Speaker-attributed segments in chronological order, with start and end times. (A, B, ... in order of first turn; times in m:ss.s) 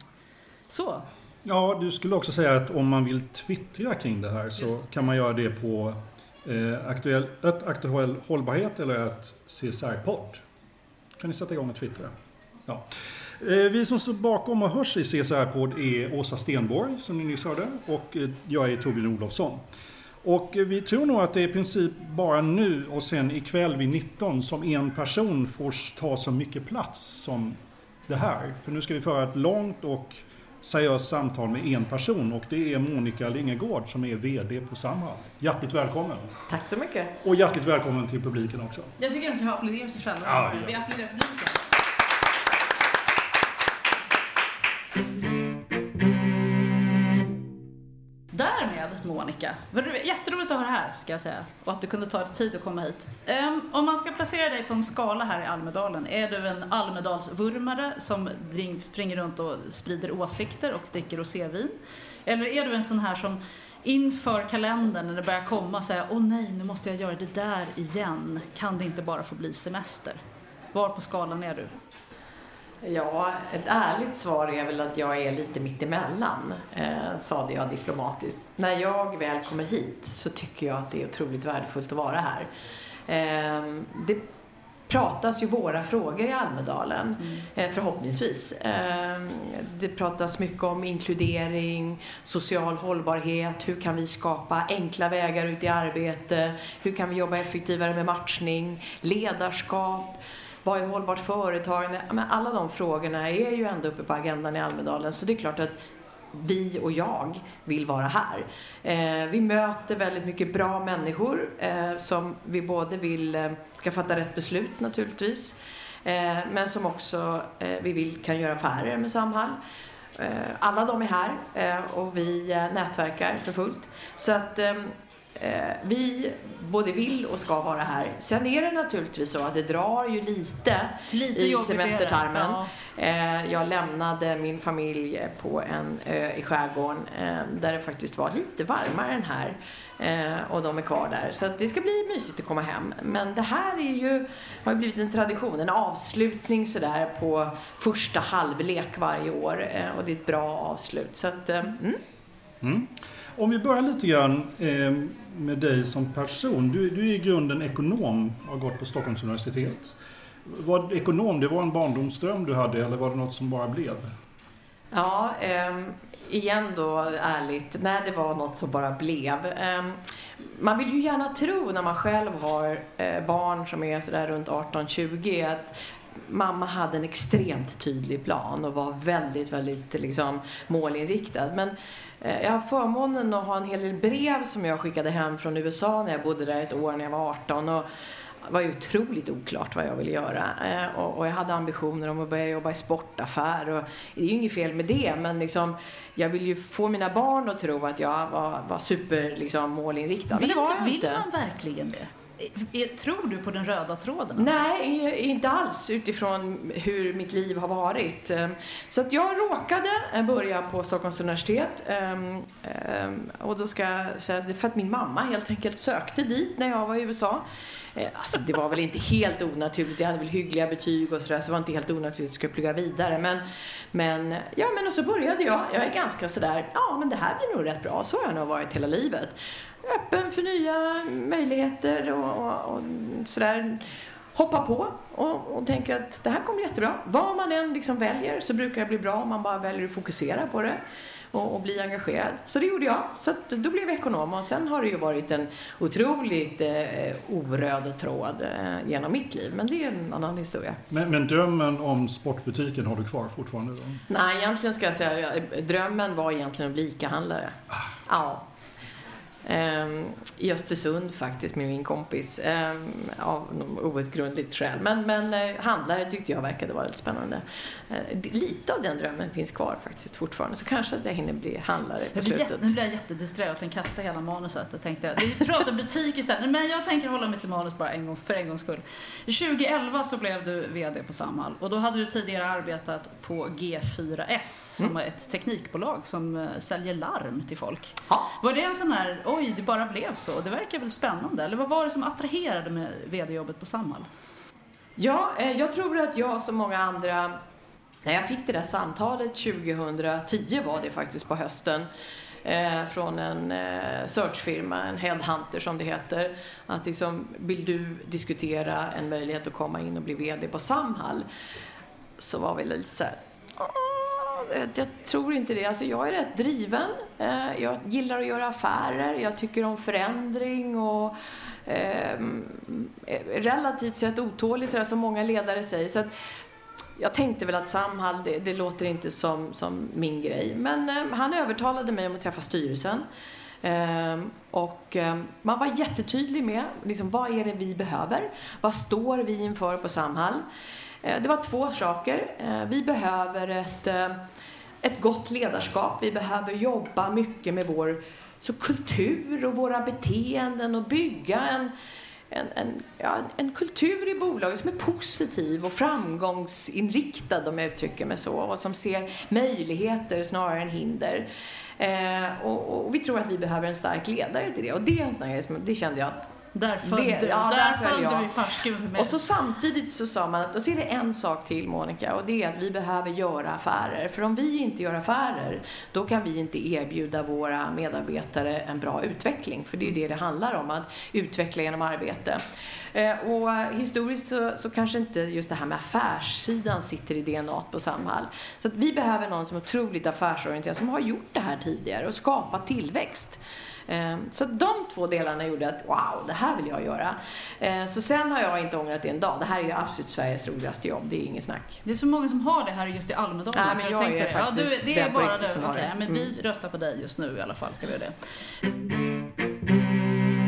0:00.7-0:01.1 A
0:01.4-0:10.4 B
0:11.2-0:12.1 B
0:13.4-0:19.6 B
0:20.2-0:36.3 B
0:36.5-0:37.1 C
0:37.2-0:38.9 B
0:39.0-0:41.6 A
0:40.2-0:40.8 B
0:48.3-1:01.7 A
1:02.2-1:10.2 A
1:10.7-1:11.7 A
1:12.8-1:22.5 C
1:23.1-1:24.2 C
1:24.9-1:40.1 C
1:40.6-1:45.7 C
1:46.3-1:59.6 C
2:00.2-2:32.0 C
2:11.1-2:12.7 A
2:32.6-2:44.1 B
2:44.9-3:07.8 C
3:08.4-3:21.2 C
3:20.3-3:24.5 A
3:24.4-3:37.4 C
3:37.9-4:00.8 C
4:01.3-4:10.9 C
4:10.9-4:14.0 B
4:14.1-4:18.4 C
4:19.4-4:32.7 C
4:32.1-4:54.1 A
4:55.0-4:57.4 C
4:58.0-5:01.9 C
5:02.4-5:11.3 C
5:12.2-5:26.1 C
5:27.0-5:33.0 C
5:33.6-5:40.4 C
5:41.0-5:44.2 C
5:44.8-5:51.7 C
5:52.3-6:01.2 C
6:01.8-6:06.3 C
6:06.5-6:09.2 A
6:06.8-6:08.3 C
6:08.9-6:22.4 C
6:22.9-6:41.8 C
6:41.8-6:48.1 A
6:43.5-6:46.3 C